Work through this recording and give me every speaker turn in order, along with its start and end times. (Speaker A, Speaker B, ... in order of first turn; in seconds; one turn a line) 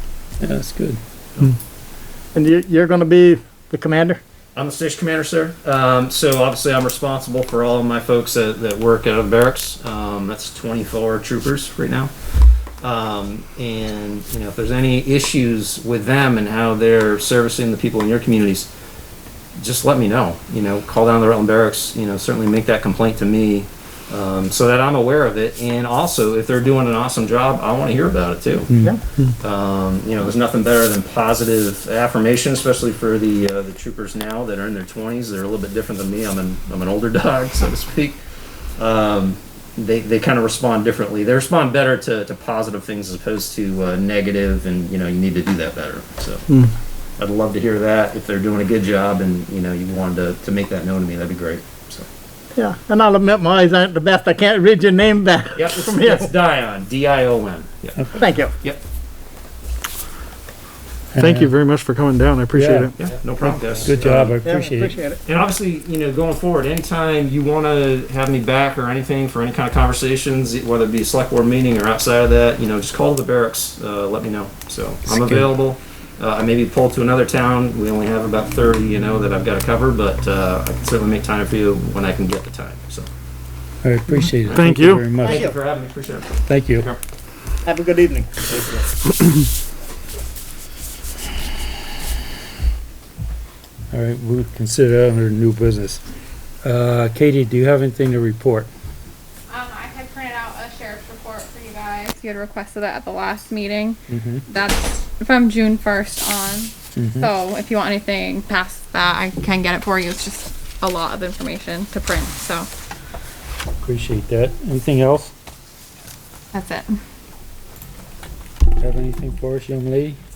Speaker A: 0.4-1.0
Speaker B: 2.3-4.2
Speaker C: 4.5-18.7
Speaker C: 19.5-28.7
Speaker A: 28.7-29.0
Speaker C: 29.4-38.2
Speaker C: 38.8-46.5
Speaker B: 46.5-46.7
Speaker C: 47.2-52.1
Speaker B: 52.5-56.3
Speaker C: 55.5-58.1
Speaker B: 58.1-58.5
Speaker A: 61.1-61.5
Speaker D: 61.2-63.1
Speaker A: 62.5-62.9
Speaker C: 63.0-64.4
Speaker A: 63.5-65.0
Speaker B: 64.4-65.2
Speaker C: 65.3-83.1
Speaker A: 75.0-75.5
Speaker A: 83.8-85.5
Speaker C: 84.5-87.0
Speaker D: 84.5-85.1
Speaker B: 85.2-85.6
Speaker A: 86.5-86.9
Speaker B: 87.6-88.5
Speaker C: 88.5-88.8
Speaker A: 93.9-96.0
Speaker A: 96.6-98.7
Speaker E: 99.5-112.7
Speaker A: 104.1-104.4
Speaker A: 106.9-107.3
Speaker A: 113.8-115.3
Speaker E: 116.5-116.9
Speaker A: 118.8-120.2